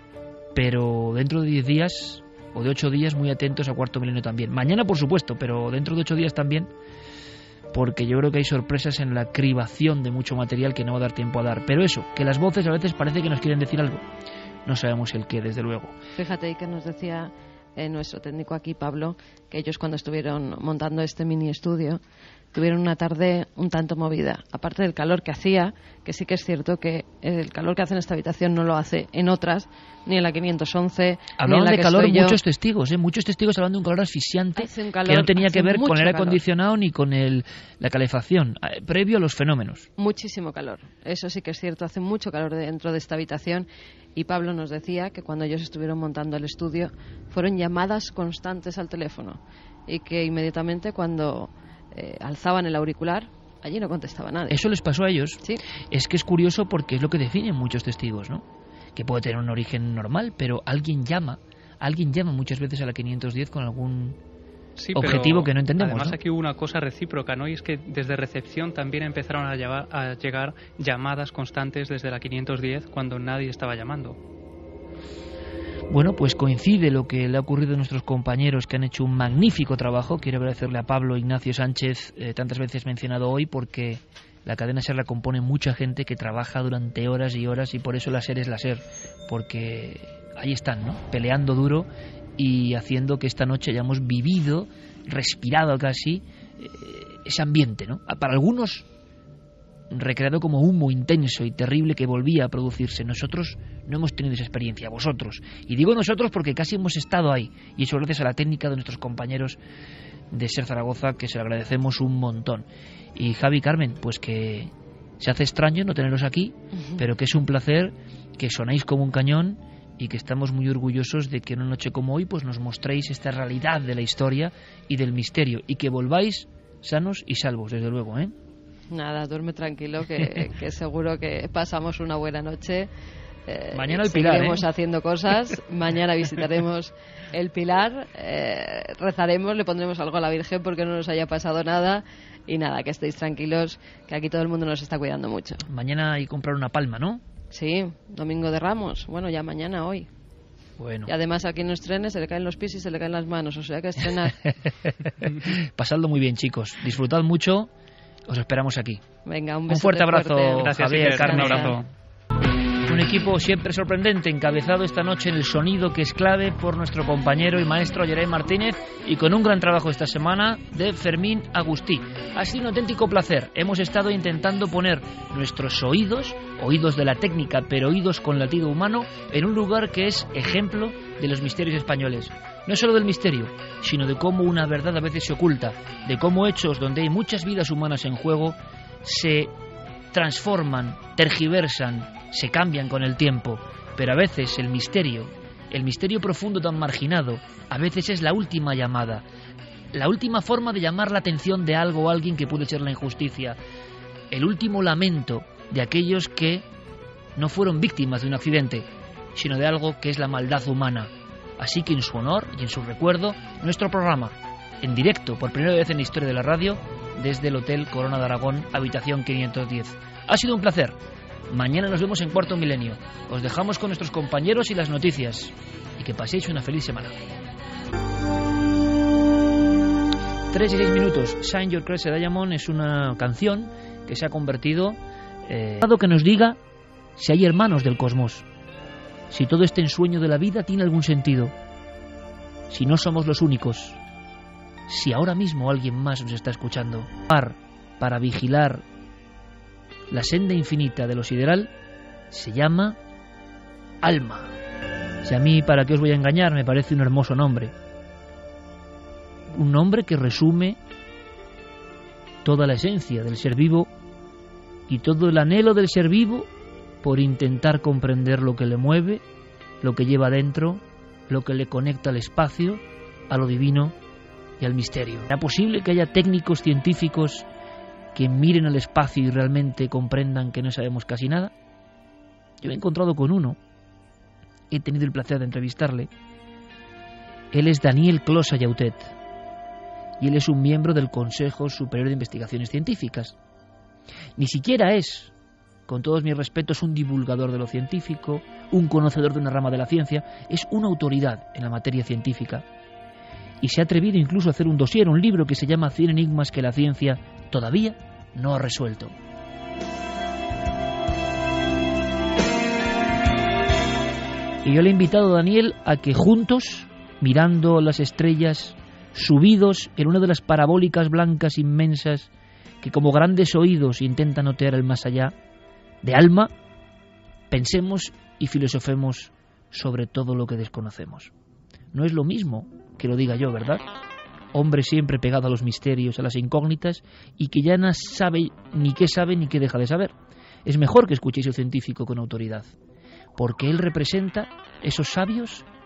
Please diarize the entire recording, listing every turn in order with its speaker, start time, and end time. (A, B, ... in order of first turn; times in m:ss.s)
0:00.6-0:06.7 A
0:07.7-0:14.0 A
0:14.7-0:15.9 A
0:16.2-0:22.0 B
0:22.5-0:32.4 B
0:31.4-0:39.9 A
0:34.6-0:36.4 B
0:40.0-0:54.6 B
0:54.5-0:58.4 A
0:59.0-1:04.2 A
1:04.8-1:14.2 C
1:05.0-1:06.2 A
1:15.9-1:38.9 A
1:39.9-1:49.6 A
1:50.3-2:08.4 A
2:08.9-2:12.9 B
2:13.5-2:25.6 B
2:13.7-2:14.6 A
2:25.7-2:27.2 A
2:27.5-2:30.1 B
2:30.8-2:31.1 A
2:31.1-2:34.5 B
2:35.0-2:37.7 A
2:38.3-2:39.0 A
2:39.3-2:41.8 B
2:39.7-2:41.8 A
2:40.6-2:41.9 C
2:42.9-3:09.5 A
3:10.1-3:19.2 A
3:19.9-3:23.6 A
3:24.3-3:26.7 A
3:27.4-3:41.0 A
3:41.5-3:47.2 A
3:50.5-3:56.6 A
3:57.2-3:58.5 A
3:59.3-4:01.5 A
4:02.7-4:04.0 A
4:04.9-4:08.8 A
4:10.1-4:11.7 A
4:12.3-4:13.0 A
4:14.0-4:14.5 A
4:15.2-4:17.8 A
4:19.5-4:20.8 A
4:22.4-4:23.9 A
4:24.9-4:26.5 A
4:27.0-4:29.2 A
4:29.8-4:34.0 A
4:34.6-4:37.5 A
4:38.2-4:41.5 A
4:42.6-4:43.6 A
4:44.7-4:46.1 A
4:47.5-4:49.2 A
4:50.2-4:53.4 A
4:54.4-4:55.3 A
4:55.9-5:02.6 A
5:03.6-5:09.2 A
5:14.6-5:22.3 A
5:22.8-5:25.3 A
5:26.0-5:26.5 A
5:27.5-5:31.3 A
5:31.9-5:33.8 A
5:34.5-5:40.1 A
5:40.6-5:42.8 A
5:43.4-5:45.7 A